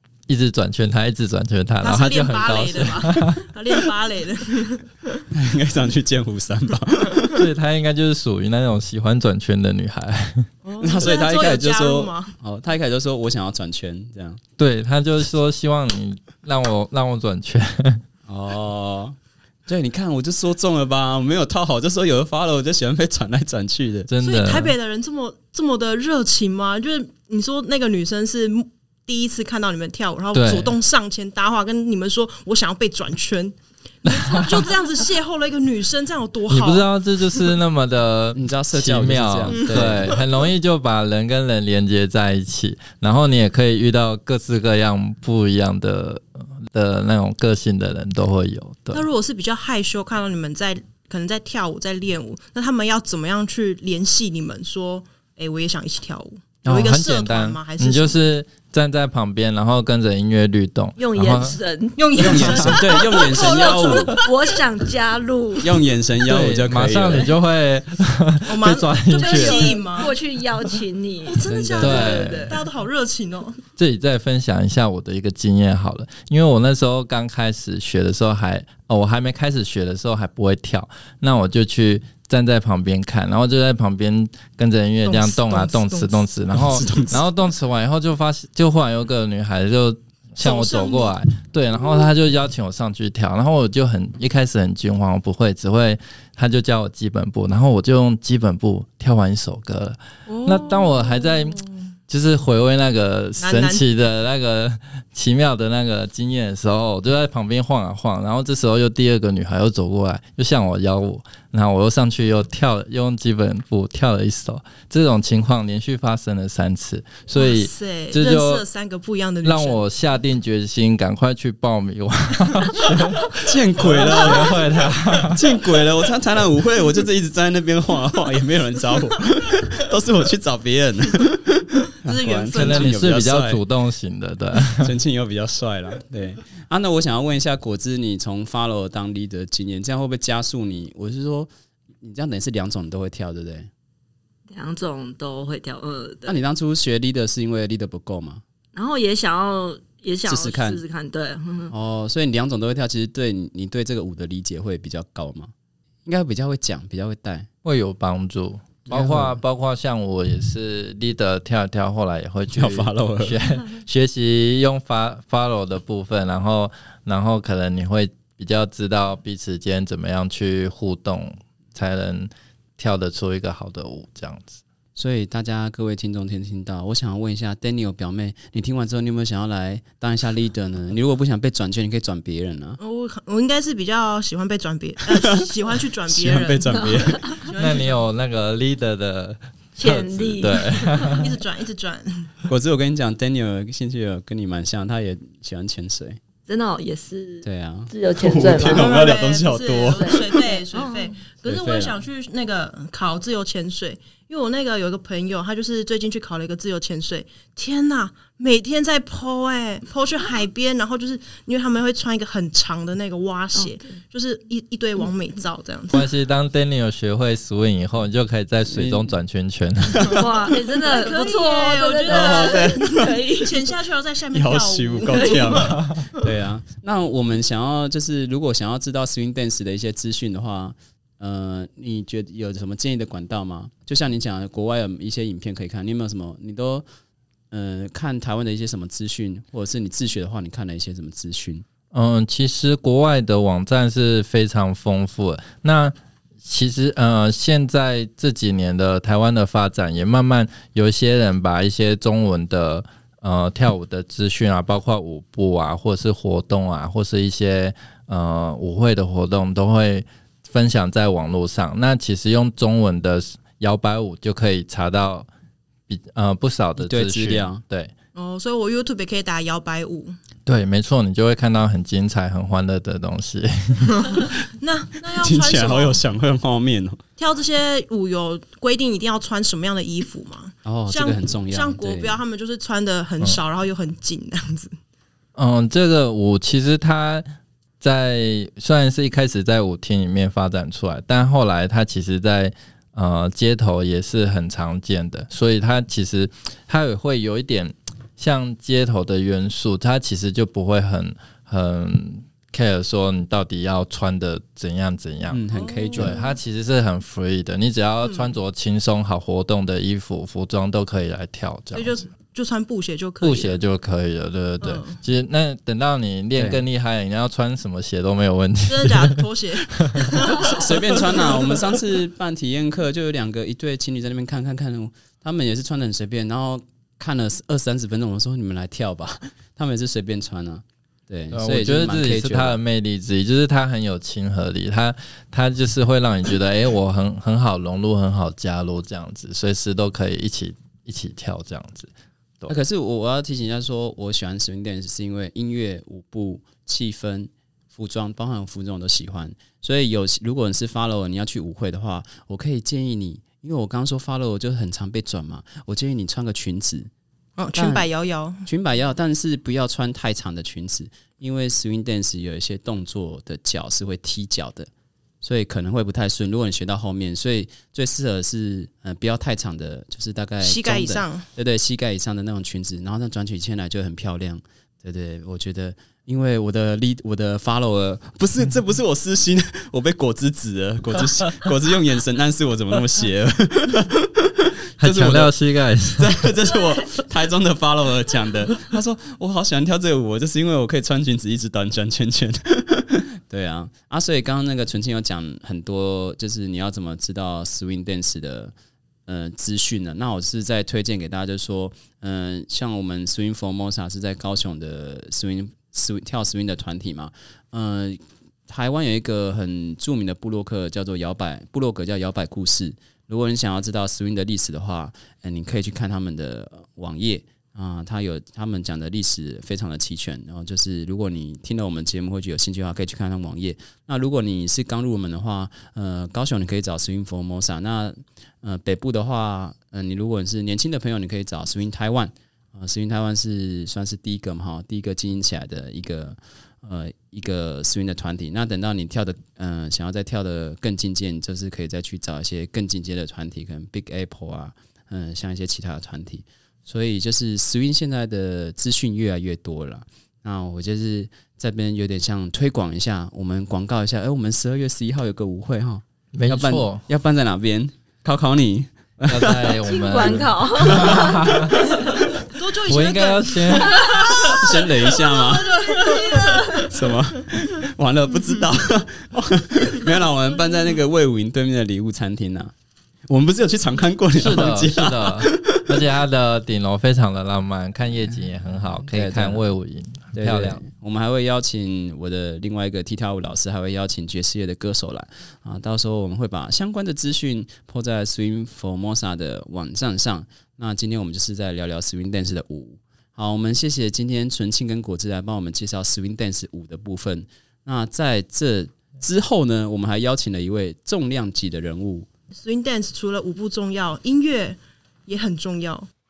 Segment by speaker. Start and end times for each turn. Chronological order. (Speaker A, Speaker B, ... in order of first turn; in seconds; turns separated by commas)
Speaker A: 0.3-3.4, Speaker B: 1.8-5.2, Speaker C: 5.3-7.4, Speaker A: 7.3-10.5, Speaker B: 10.6-12.4, Speaker C: 10.8-14.4, Speaker A: 14.6-18.0, Speaker C: 18.3-24.1, Speaker A: 24.1-24.7, Speaker B: 24.2-36.9, Speaker A: 30.3-30.8, Speaker A: 34.1-34.6, Speaker A: 36.5-49.1, Speaker C: 38.3-40.2, Speaker B: 39.7-40.2, Speaker B: 48.9-58.2, Speaker A: 56.6-61.6, Speaker D: 61.0-65.8, Speaker B: 62.0-64.3, Speaker C: 62.2-64.1, Speaker C: 65.6-67.3, Speaker A: 66.2-69.8, Speaker B: 68.4-70.1, Speaker D: 69.2-72.6, Speaker B: 71.2-73.6, Speaker C: 71.4-72.2, Speaker A: 71.8-72.5, Speaker A: 73.8-118.6, Speaker B: 85.0-86.2, Speaker C: 86.5-87.2, Speaker B: 90.4-91.1, Speaker B: 100.3-101.8, Speaker B: 103.4-103.8, Speaker B: 117.3-119.8, Speaker A: 119.4-125.4, Speaker C: 123.4-124.6, Speaker B: 124.0-124.6, Speaker C: 125.3-133.6, Speaker B: 132.0-132.9, Speaker A: 132.5-134.9, Speaker C: 134.8-141.5, Speaker C: 142.0-143.7, Speaker D: 144.5-146.4, Speaker C: 146.2-148.4, Speaker D: 148.7-151.7, Speaker C: 150.2-150.8, Speaker C: 151.7-155.5, Speaker C: 156.0-157.5, Speaker A: 157.6-174.6, Speaker C: 158.8-159.4, Speaker C: 162.5-163.4, Speaker C: 174.9-182.8, Speaker B: 182.8-188.0, Speaker C: 185.1-187.4, Speaker D: 186.7-187.4, Speaker A: 187.5-191.3, Speaker D: 189.8-191.2, Speaker B: 191.1-192.3, Speaker C: 192.5-196.2, Speaker D: 196.5-198.9, Speaker C: 197.4-200.2, Speaker B: 198.3-216.1, Speaker D: 199.9-201.2, Speaker C: 201.4-202.0, Speaker D: 213.5-213.9, Speaker A: 215.9-220.2, Speaker C: 218.7-219.1, Speaker C: 219.9-220.3, Speaker D: 220.1-223.7, Speaker B: 220.8-225.8, Speaker C: 222.1-223.2, Speaker C: 224.3-236.8, Speaker D: 225.2-225.6, Speaker C: 237.5-241.6, Speaker A: 241.9-265.3, Speaker A: 265.9-267.9, Speaker C: 266.8-267.6, Speaker B: 268.1-270.1, Speaker A: 270.4-274.3, Speaker B: 274.0-276.0, Speaker C: 275.1-277.0, Speaker B: 277.2-284.7, Speaker C: 280.6-282.2, Speaker A: 285.4-287.2, Speaker A: 287.8-305.4, Speaker C: 305.3-306.2, Speaker B: 305.5-306.3, Speaker A: 305.9-312.1, Speaker B: 308.0-308.3, Speaker B: 311.7-313.6, Speaker A: 313.2-319.2, Speaker B: 314.6-315.0, Speaker C: 316.4-316.6, Speaker B: 318.7-321.6, Speaker A: 319.8-320.1, Speaker C: 320.4-332.6, Speaker A: 331.3-341.9, Speaker C: 342.5-356.9, Speaker B: 357.4-358.4, Speaker C: 357.5-357.9, Speaker C: 358.4-364.7, Speaker C: 365.2-385.3, Speaker B: 370.4-371.3, Speaker A: 384.8-386.3, Speaker C: 385.9-398.5, Speaker C: 399.1-461.2, Speaker A: 456.1-456.8, Speaker A: 459.1-461.7, Speaker D: 459.4-461.5, Speaker B: 461.8-466.7, Speaker A: 462.6-464.1, Speaker D: 463.7-464.1, Speaker C: 464.3-465.6, Speaker D: 465.8-466.7, Speaker C: 466.6-472.5, Speaker C: 473.1-475.8, Speaker A: 474.2-480.6, Speaker C: 478.9-479.4, Speaker C: 480.1-502.1, Speaker B: 502.4-505.9